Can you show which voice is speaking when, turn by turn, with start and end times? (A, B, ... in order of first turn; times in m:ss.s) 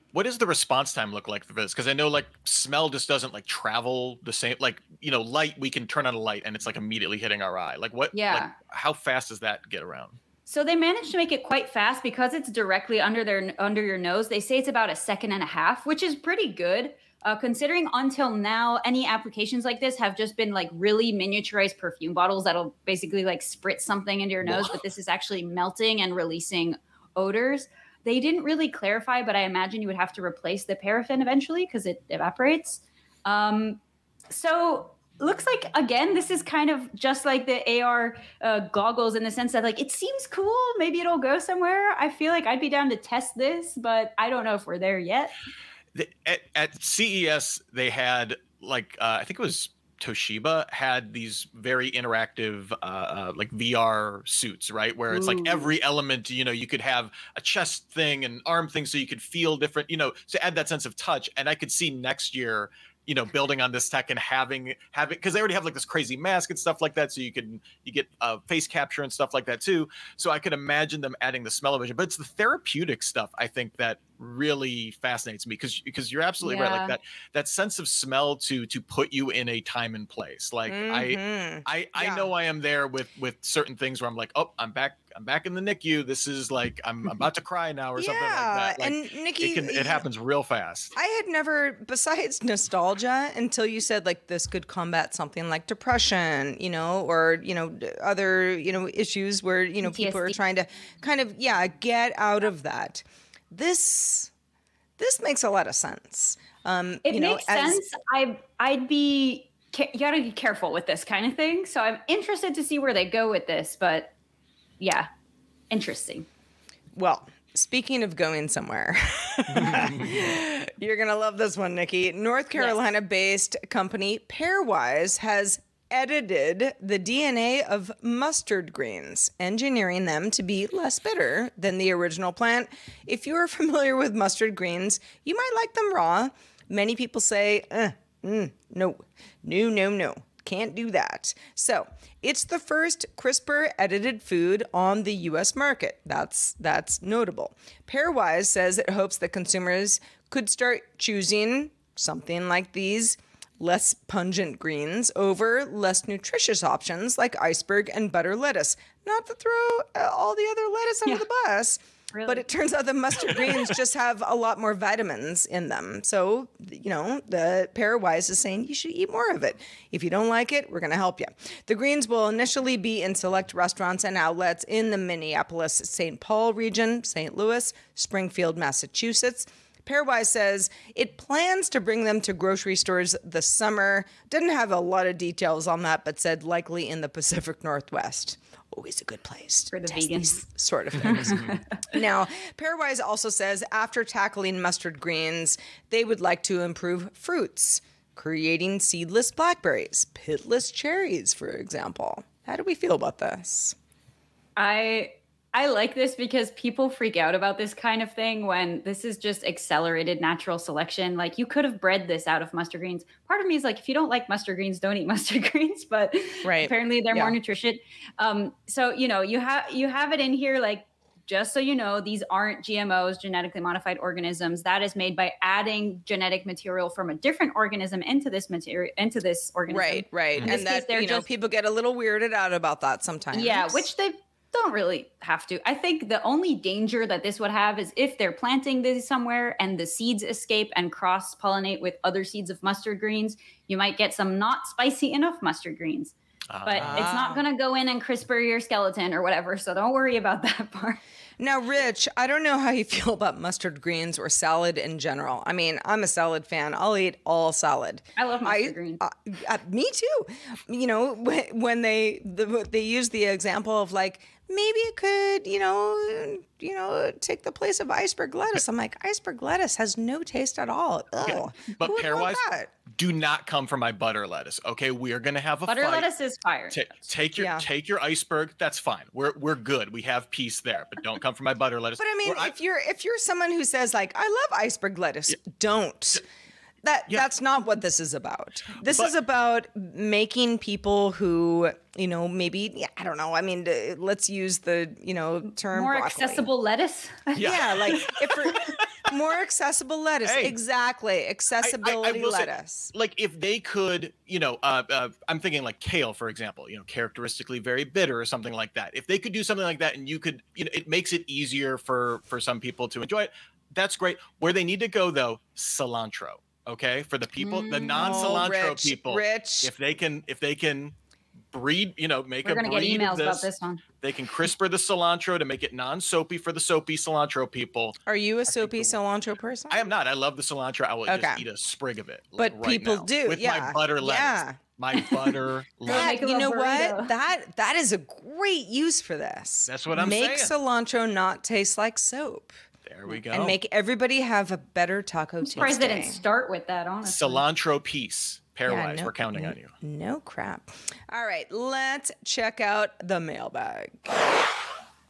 0:00.1-0:10.2 A
0:08.1-0:08.5 B
0:10.5-0:45.4 B
0:24.4-0:24.8 A
0:46.0-1:30.9 A
0:55.1-0:55.7 B
1:16.4-1:16.9 B
1:20.7-1:22.3 C
1:28.0-1:30.0 C
1:31.0-1:44.3 C
1:39.8-1:40.4 B
1:45.0-1:47.8 C
1:47.1-1:54.1 B
1:54.8-1:55.1 B
1:55.7-1:56.3 B
1:57.0-3:23.8 C
2:42.1-2:42.4 B
3:09.7-3:10.4 B
3:11.0-3:11.6 B
3:24.6-3:51.2 B
3:36.4-3:37.4 C
3:49.7-3:53.9 C
3:53.3-4:06.1 B
4:06.5-4:07.1 A
4:06.6-4:11.0 B
4:06.8-4:07.4 C
4:11.4-4:32.7 C
4:18.2-4:19.0 B
4:31.2-4:36.1 A
4:35.7-4:37.0 B
4:36.7-4:42.5 A
4:37.4-4:37.6 C
4:42.0-4:46.2 C
4:46.8-4:56.5 C
4:48.8-4:49.1 A
4:55.7-4:58.0 B
4:57.4-4:58.7 A
4:57.4-5:02.9 C
5:00.2-5:00.6 A
5:01.6-5:21.0 A
5:17.4-5:18.4 B
5:17.9-5:19.7 C
5:21.5-5:23.5 A
5:22.4-5:23.8 B
5:24.0-5:29.0 A
5:28.1-5:29.9 C
5:29.7-5:36.1 A
5:31.1-5:31.4 C
5:32.4-5:34.6 C
5:35.8-5:37.1 B
5:35.9-5:42.5 C
5:39.7-5:40.5 A
5:42.9-5:43.6 A
5:43.3-5:46.2 C
5:45.5-5:47.4 B
5:47.0-5:49.7 A
5:48.7-5:54.4 C